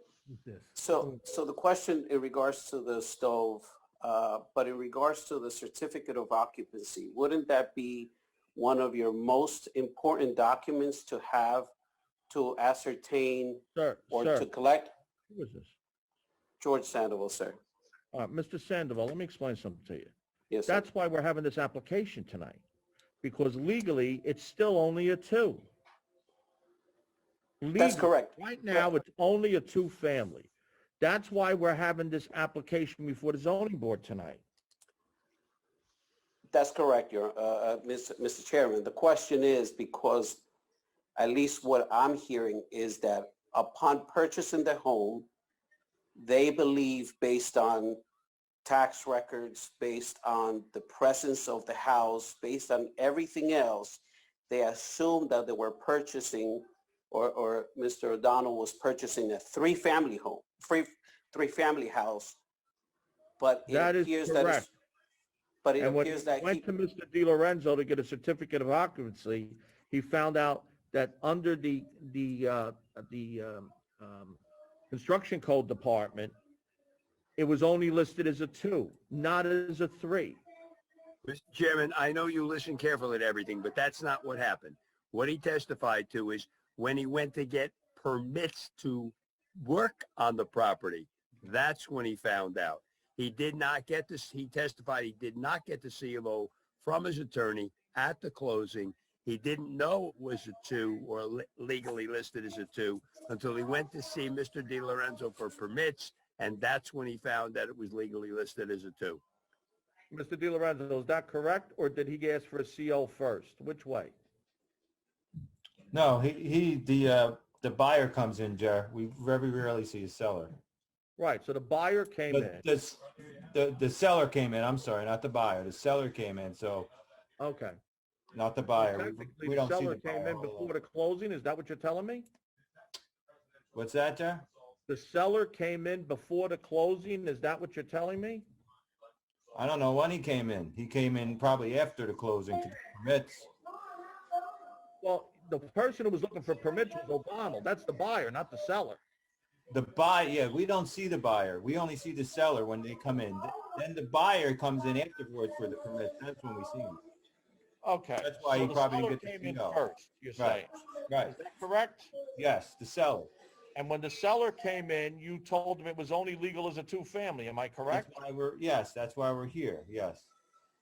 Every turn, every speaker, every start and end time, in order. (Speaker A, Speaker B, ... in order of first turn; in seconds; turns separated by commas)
Speaker A: 0.3-1.2, Speaker B: 0.8-11.7, Speaker B: 12.3-14.9, Speaker A: 13.7-14.5, Speaker A: 15.3-15.7, Speaker B: 16.6-17.6, Speaker A: 18.1-20.1, Speaker B: 20.5-20.9, Speaker A: 20.7-22.6, Speaker A: 23.2-25.7, Speaker A: 27.6-30.5, Speaker B: 27.8-28.9, Speaker A: 31.0-34.4, Speaker B: 36.5-40.4, Speaker B: 41.1-45.3, Speaker B: 46.1-48.0, Speaker B: 48.6-62.4, Speaker B: 63.4-64.7, Speaker A: 63.7-64.7, Speaker B: 65.6-66.6, Speaker A: 65.8-74.4, Speaker A: 74.9-76.3, Speaker A: 77.4-80.4, Speaker C: 81.2-109.2, Speaker A: 110.1-114.1, Speaker D: 115.9-120.5, Speaker A: 121.2-122.6, Speaker D: 122.3-126.9, Speaker A: 127.4-127.8, Speaker D: 128.3-130.8, Speaker A: 128.8-132.3, Speaker D: 133.7-134.5, Speaker A: 134.9-138.4, Speaker D: 139.5-143.5, Speaker A: 145.0-149.0, Speaker D: 149.7-157.0, Speaker A: 157.8-160.7, Speaker D: 158.2-159.8, Speaker D: 160.4-161.4, Speaker A: 161.3-162.1, Speaker D: 162.3-163.3, Speaker A: 163.7-168.1, Speaker D: 167.9-170.3